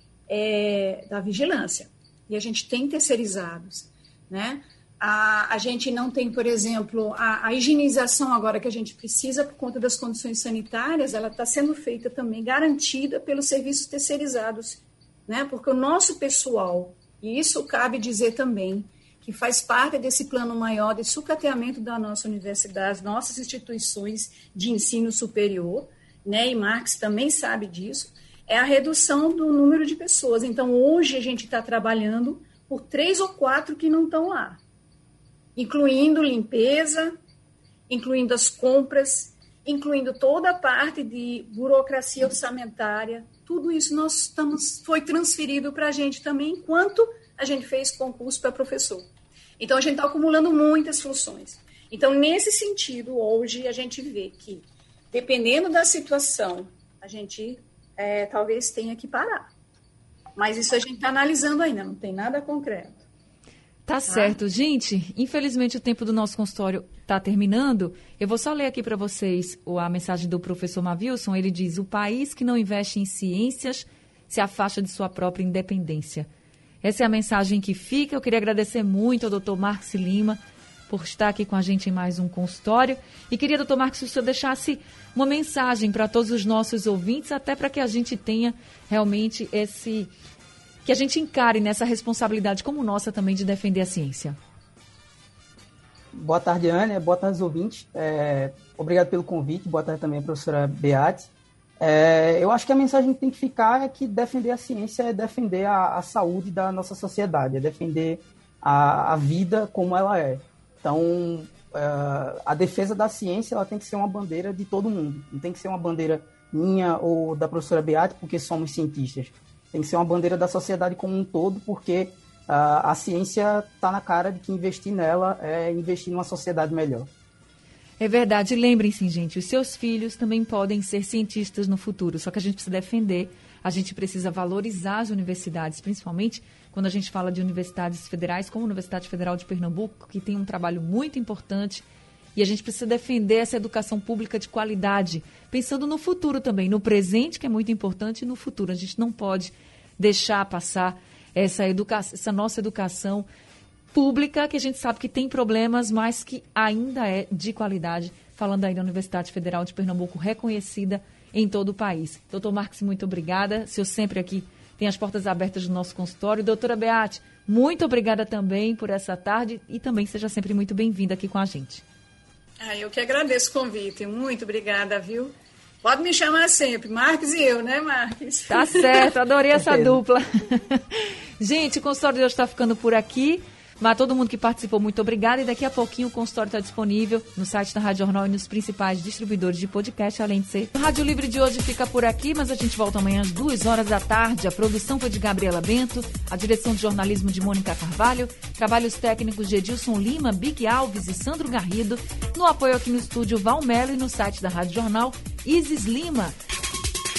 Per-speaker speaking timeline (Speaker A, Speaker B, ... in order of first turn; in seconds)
Speaker A: 0.3-34.6, 35.5-37.1, 37.9-49.1, 49.6-59.5, 60.4-63.0, 64.1-64.4, 172.6-179.1
Speaker B: 63.9-76.3, 76.8-90.1, 90.8-94.4, 128.0-141.8, 142.3-153.2, 153.9-171.8, 178.5-206.3
Speaker C: 96.1-127.1, 179.5-180.0